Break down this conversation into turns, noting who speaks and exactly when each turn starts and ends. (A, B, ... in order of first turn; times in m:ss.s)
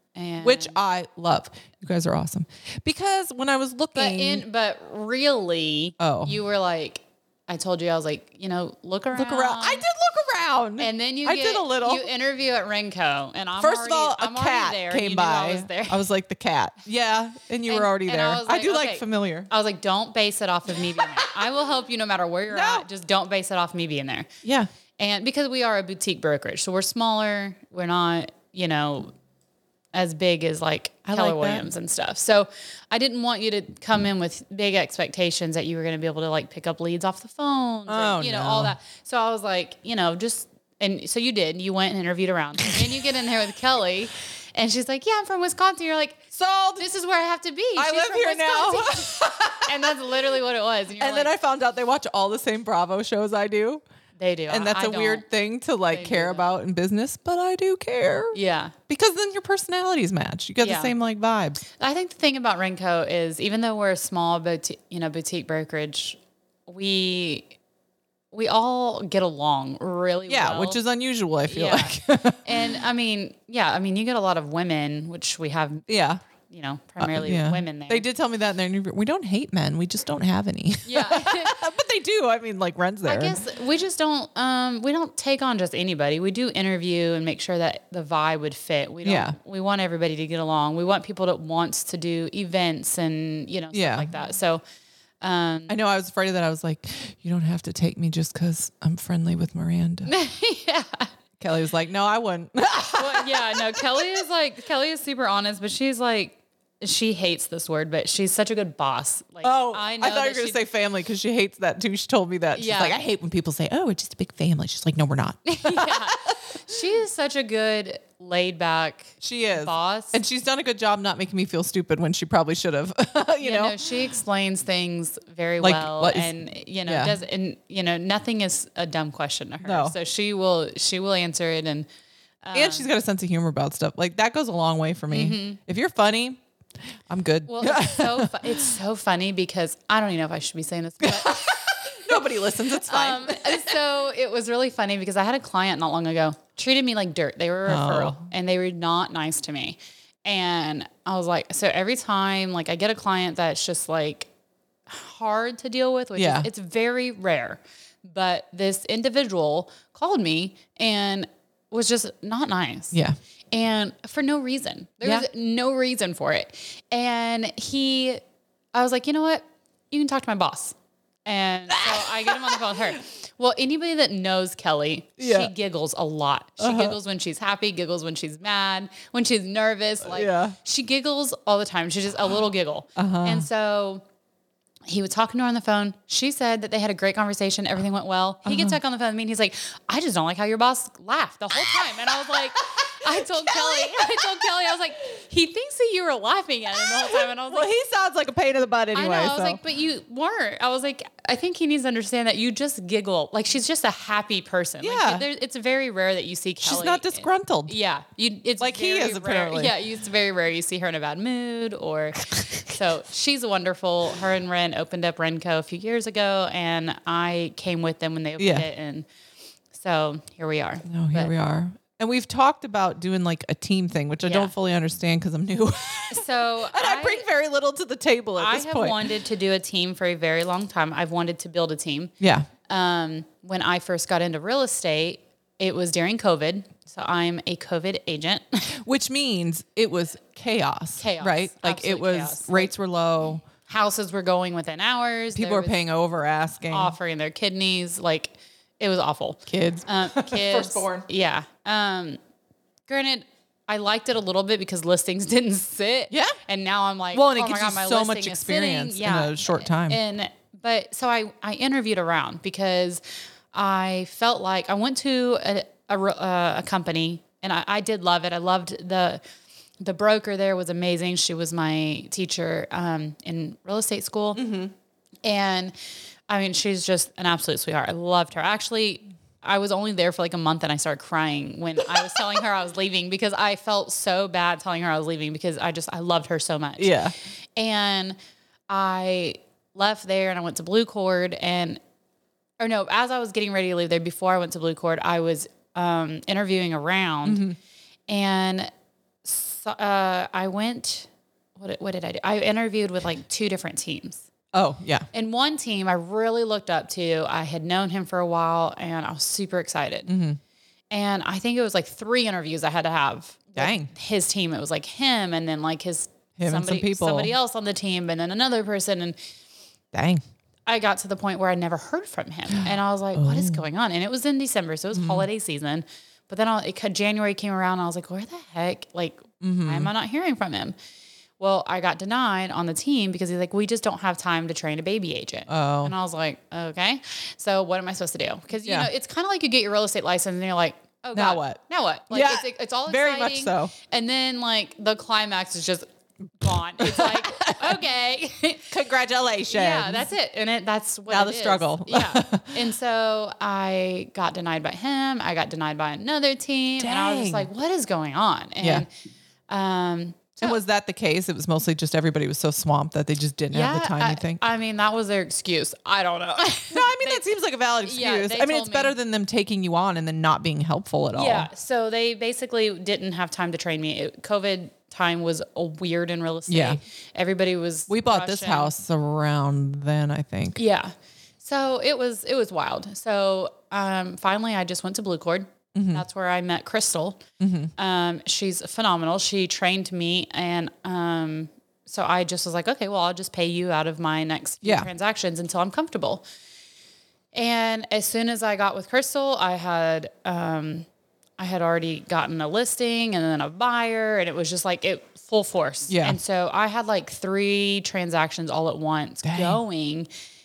0:00.2-0:00.8 A
0:00.4-0:04.4 B
0:04.0-0:09.8 A
0:06.0-0:06.4 B
0:09.1-0:12.1 B
0:10.8-0:16.0 A
0:13.6-0:19.5 B
0:17.7-0:24.3 A
0:20.8-0:21.5 B
0:22.5-0:22.9 B
0:24.4-0:24.7 B
0:25.0-0:29.1 A
0:29.9-0:51.3 A
0:31.1-0:31.7 B
0:37.9-0:38.8 B
0:46.3-0:46.8 B
0:47.8-0:50.0 B
0:51.0-0:53.8 B
0:54.2-0:55.3 A
0:54.5-0:58.4 B
0:55.9-0:56.5 A
0:58.3-0:58.8 A
0:58.9-1:01.6 B
1:00.6-1:00.9 A
1:01.8-1:07.5 A
1:08.3-1:10.8 A
1:10.3-1:12.8 B
1:11.5-1:15.9 A
1:15.9-1:16.2 B
1:16.4-1:18.1 A
1:17.0-1:23.4 B
1:20.8-1:21.6 A
1:23.0-1:34.6 A
1:29.0-1:29.4 B
1:33.7-1:34.1 B
1:35.2-1:35.8 A
1:35.7-1:40.1 B
1:40.1-1:41.1 A
1:41.4-1:44.1 B
1:42.9-1:50.6 A
1:49.4-1:56.4 B
1:52.5-1:53.0 A
1:55.5-2:00.2 A
1:59.2-2:03.9 B
2:03.4-2:11.9 A
2:05.6-2:06.4 B
2:06.9-2:07.2 B
2:09.6-2:10.0 B
2:12.4-2:12.9 A
2:12.5-2:16.4 B
2:15.1-2:15.6 A
2:17.1-2:18.7 B
2:17.5-2:22.1 A
2:21.0-2:23.8 B
2:22.8-2:34.3 A
2:27.7-2:28.2 B
2:34.9-2:43.0 A
2:36.2-2:36.5 B
2:42.9-2:43.2 B
2:43.5-2:48.2 A
2:48.7-3:04.0 A
2:51.7-2:52.8 B
2:55.2-2:55.5 B
2:56.6-2:57.0 B
3:00.0-3:00.6 B
3:03.0-3:03.5 B
3:04.9-3:17.7 A
3:08.4-3:08.8 B
3:12.3-3:14.7 B
3:16.8-3:19.6 B
3:18.9-3:39.1 A
3:24.8-3:25.3 B
3:26.6-3:27.8 B
3:28.6-3:29.8 B
3:38.4-3:38.7 B
3:39.7-3:41.3 A
3:40.9-3:49.1 B
3:44.2-3:44.5 A
3:46.1-3:47.3 A
3:48.4-3:52.1 A
3:52.2-3:52.5 B
3:52.7-3:58.8 A
3:58.8-4:03.4 B
4:01.0-4:02.7 A
4:03.6-4:05.8 A
4:05.3-4:07.0 B
4:06.7-4:12.2 A
4:09.5-4:11.1 B
4:12.9-4:23.0 A
4:16.1-4:16.4 B
4:17.1-4:20.0 B
4:23.5-4:29.2 A
4:29.8-4:34.5 A
4:34.4-4:34.7 B
4:35.2-4:35.8 A
4:36.3-4:48.2 A
4:46.8-4:47.1 B
4:48.7-4:51.8 A
4:52.6-4:57.4 A
4:57.3-4:57.6 B
4:58.1-4:58.7 A
4:59.2-5:04.3 A
5:04.5-5:05.1 B
5:05.1-5:10.1 A
5:10.1-5:10.4 B
5:10.9-5:19.2 A
5:13.6-5:13.9 B
5:16.4-5:17.3 B
5:19.9-5:20.2 B
5:20.7-5:30.8 A
5:22.5-5:23.6 B
5:24.9-5:25.3 B
5:29.4-5:29.9 B
5:31.4-5:45.9 A
5:35.5-5:35.9 B
5:41.1-5:41.6 B
5:42.1-5:43.7 B
5:46.4-5:48.7 A
5:46.5-5:47.8 B
5:48.7-5:50.1 B
5:49.5-5:58.9 A
5:51.1-5:52.6 B
5:56.8-5:57.5 B
5:58.6-5:58.9 B
5:59.5-6:00.6 A
6:00.4-6:04.4 B
6:03.5-6:07.3 A
6:06.7-6:11.5 B
6:07.8-6:09.0 A
6:11.2-6:18.7 A
6:16.5-6:16.8 B
6:17.9-6:20.6 B
6:20.6-6:27.2 A
6:25.7-6:26.0 B
6:27.4-6:27.7 B
6:27.8-6:36.2 A
6:34.6-6:34.9 B
6:37.3-6:40.9 A
6:41.4-6:50.1 A
6:45.9-6:46.2 B
6:49.2-6:49.6 B